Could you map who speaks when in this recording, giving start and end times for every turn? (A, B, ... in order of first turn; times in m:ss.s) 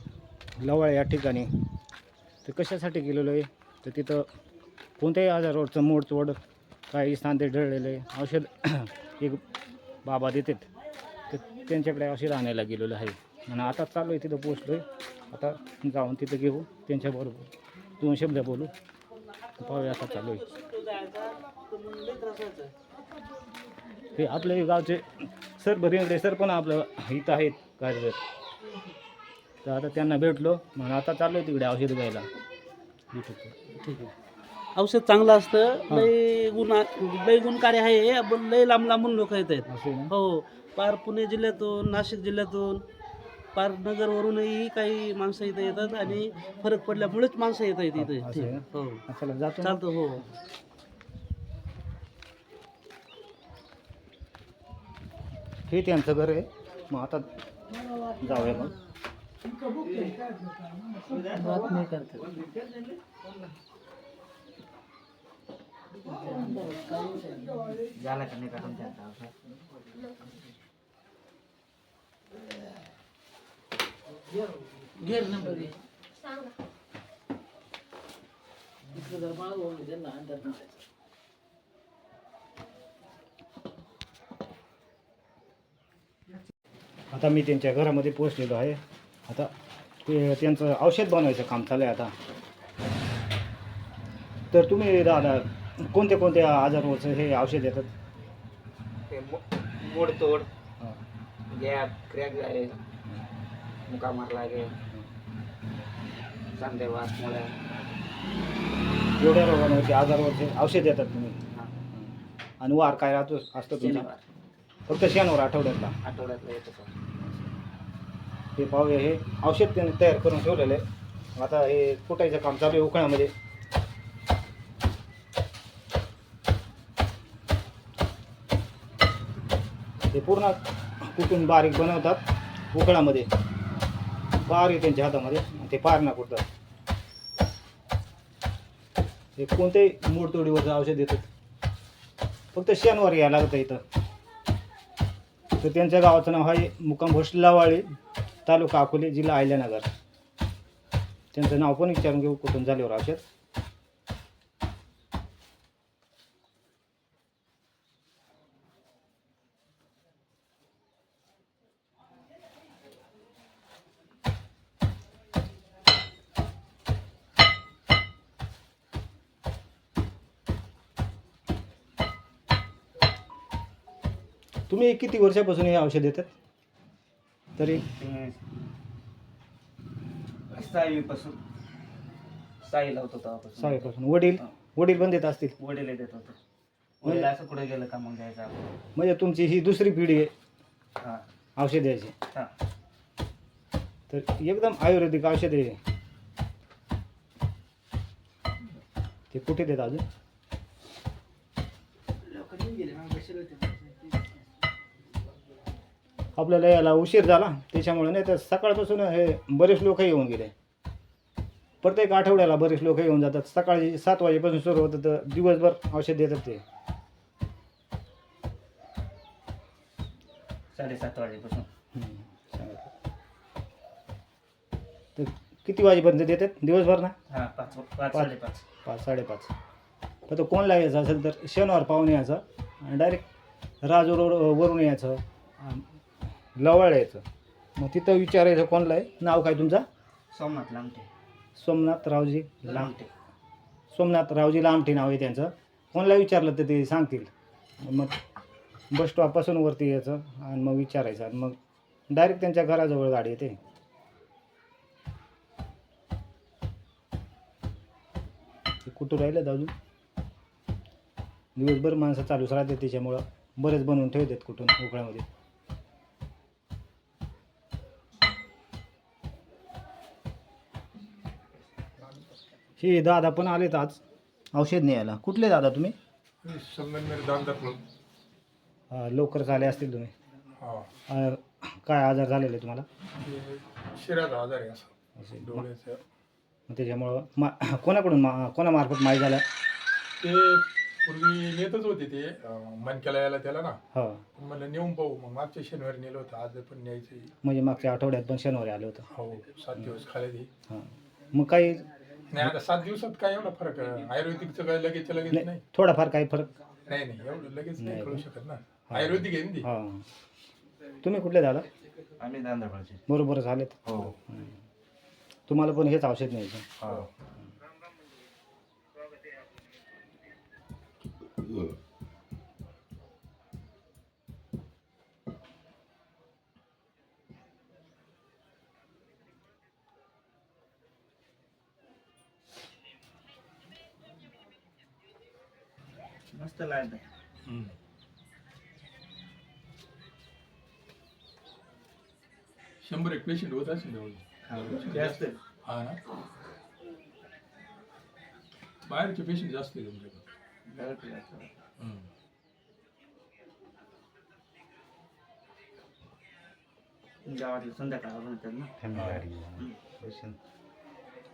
0:00.6-0:01.5 A
0:02.4-0:04.3 A
0:05.0-0:06.4 A
0:06.9-0:09.4 A
0:10.0-0:10.7 A
0:11.3-0:18.7 A
0:19.6-0:20.4 A
0:20.0-0:22.7 B
0:24.1-0:28.2 A
0:29.6-0:32.3 A
0:33.1-0:33.6 A
0:33.8-0:34.1 B
0:34.8-0:42.8 B
0:39.6-0:40.1 A
0:43.5-0:49.0 B
0:48.0-0:49.8 A
0:49.6-0:50.2 B
0:55.7-0:57.3 A
0:58.2-0:58.8 A
1:01.0-1:02.8 C
1:01.4-1:02.2 D
1:07.9-1:09.3 C
1:15.0-1:15.4 B
1:15.2-1:15.7 D
1:19.0-1:20.6 D
1:19.3-1:19.6 B
1:27.1-1:29.5 A
1:30.0-1:32.1 A
1:34.5-1:37.9 A
1:39.1-1:40.5 C
1:41.5-1:42.8 C
1:43.9-1:44.8 C
1:46.6-1:47.6 C
1:49.2-1:51.4 A
1:51.5-1:51.8 C
1:51.9-1:54.1 A
1:53.7-1:54.2 C
1:54.9-1:56.0 A
1:56.0-1:56.9 C
1:58.6-2:00.8 A
2:01.4-2:03.3 A
2:10.1-2:13.3 A
2:14.4-2:16.4 A
2:19.4-2:21.3 A
2:22.5-2:23.8 A
2:25.6-2:27.9 A
2:28.4-2:29.9 A
2:31.3-2:33.2 A
2:54.7-2:56.3 A
2:57.6-2:57.8 A
2:57.8-2:58.4 C
3:00.5-3:01.4 C
3:02.6-3:03.9 C
3:03.6-3:05.6 A
3:05.6-3:06.4 C
3:07.0-3:08.7 C
3:09.0-3:10.3 A
3:11.0-3:11.2 C
3:11.6-3:12.2 A
3:14.1-3:15.8 A
3:19.3-3:20.0 A
3:22.7-3:23.4 D
3:26.4-3:30.5 A
3:31.8-3:36.6 A
3:40.7-3:41.7 C
3:41.9-3:42.9 A
3:45.2-3:47.2 A
3:47.3-3:48.6 C
3:48.8-3:49.5 A
3:50.3-3:53.2 A
3:53.8-3:55.9 A
3:56.6-3:57.2 A
3:57.8-3:59.9 A
4:00.3-4:01.1 C
4:01.6-4:02.9 A
4:02.6-4:03.1 C
4:03.9-4:08.2 A
4:08.9-4:11.6 A
4:12.1-4:13.6 A
4:18.8-4:19.7 A
4:21.6-4:25.2 A
4:32.8-4:34.0 A
4:34.5-4:36.0 A
4:36.4-4:37.8 D
4:38.9-4:40.1 A
4:40.6-4:40.9 D
4:41.1-4:42.8 A
4:43.2-4:46.0 D
4:45.2-4:45.6 A
4:46.7-4:49.4 A
4:50.2-4:53.8 D
4:53.9-4:54.2 A
4:54.4-4:57.3 D
4:57.4-4:59.0 A
4:59.1-5:00.5 D
5:00.7-5:01.8 A
5:02.3-5:05.6 D
5:05.3-5:06.5 A
5:06.9-5:09.7 D
5:07.8-5:08.2 A
5:08.9-5:10.0 A
5:11.0-5:11.7 A
5:12.2-5:13.0 C
5:13.1-5:14.6 A
5:13.8-5:14.2 C
5:15.5-5:16.9 A
5:16.8-5:17.1 C
5:36.3-5:37.0 C
5:37.5-5:37.7 D
5:42.8-5:46.0 D
5:44.5-5:45.4 C
5:48.8-5:50.2 D
5:50.7-5:51.5 C
5:51.8-5:52.1 D
5:57.2-5:59.8 C
5:58.8-6:00.4 A